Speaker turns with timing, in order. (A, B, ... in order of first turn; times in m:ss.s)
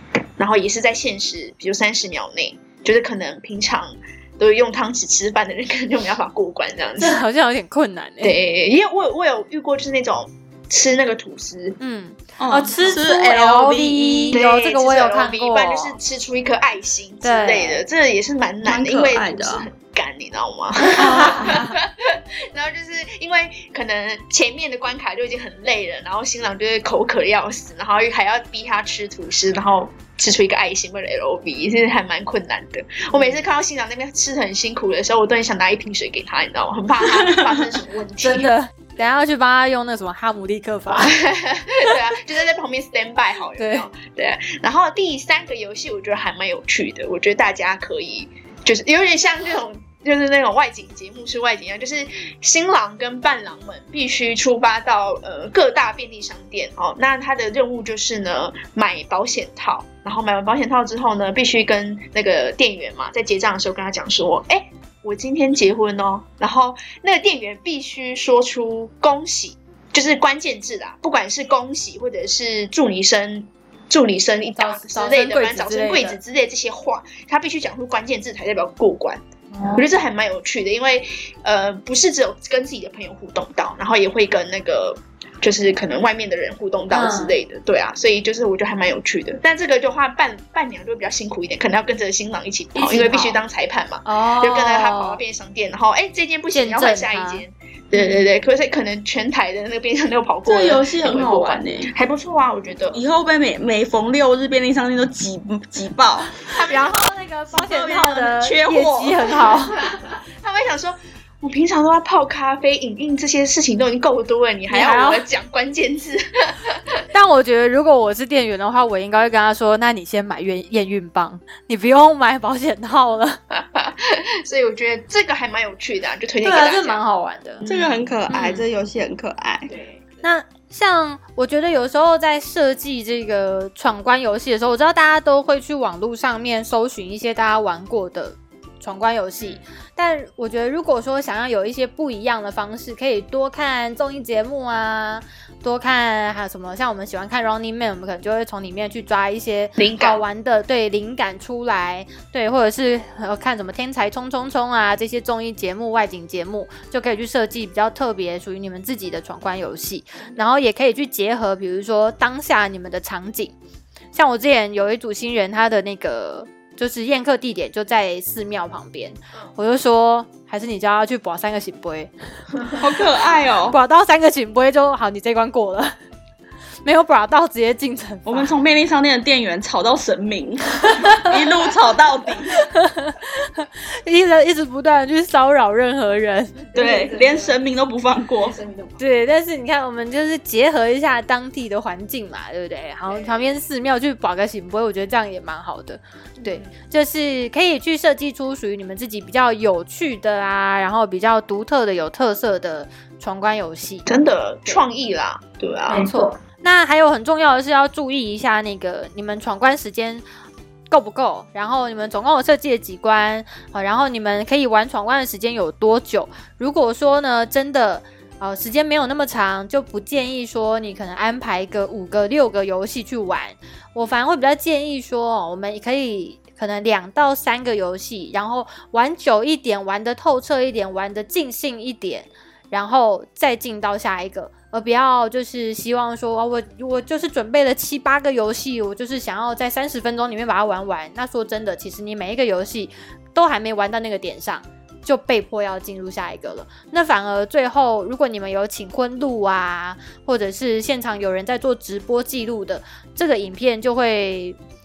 0:00.4-0:07.2 A
0:07.0-0:08.4 B
0:08.2-0:11.8 A
0:11.8-0:16.0 B
0:12.4-0:14.4 C
0:14.3-0:38.5 A
0:17.2-0:17.8 B
0:18.6-0:19.7 C
0:21.0-0:21.7 B
0:21.0-0:21.5 C
0:33.1-0:33.4 B
0:38.2-0:41.2 B
0:40.9-1:19.2 A
0:43.6-0:43.9 B
1:14.6-1:16.2 B
1:19.5-1:19.8 B
1:19.7-1:43.0 A
1:26.9-1:27.3 B
1:32.8-1:33.4 B
1:34.0-1:35.2 B
1:36.5-1:37.4 B
1:40.4-1:41.9 C
1:42.9-1:46.4 C
1:46.4-1:49.9 B
1:46.5-1:47.0 A
1:47.5-1:49.2 C
1:49.9-1:56.2 A
1:54.7-1:55.2 B
1:57.1-2:03.4 B
2:03.5-2:07.0 A
2:06.4-2:07.6 B
2:07.6-2:08.5 A
2:07.6-2:09.7 C
2:08.3-2:08.6 B
2:10.2-2:43.5 B
2:29.8-2:30.2 A
2:44.1-2:52.1 B
2:52.8-2:53.8 C
2:53.6-2:56.0 B
2:56.8-2:58.5 B
2:58.2-3:02.6 C
3:00.8-3:01.3 B
3:02.5-3:07.5 B
3:06.7-3:08.6 C
3:06.8-3:07.4 A
3:08.4-3:09.0 A
3:09.0-3:24.8 B
3:13.1-3:13.5 A
3:16.4-3:16.7 A
3:24.0-3:26.1 A
3:25.9-3:30.2 B
3:30.9-4:14.6 B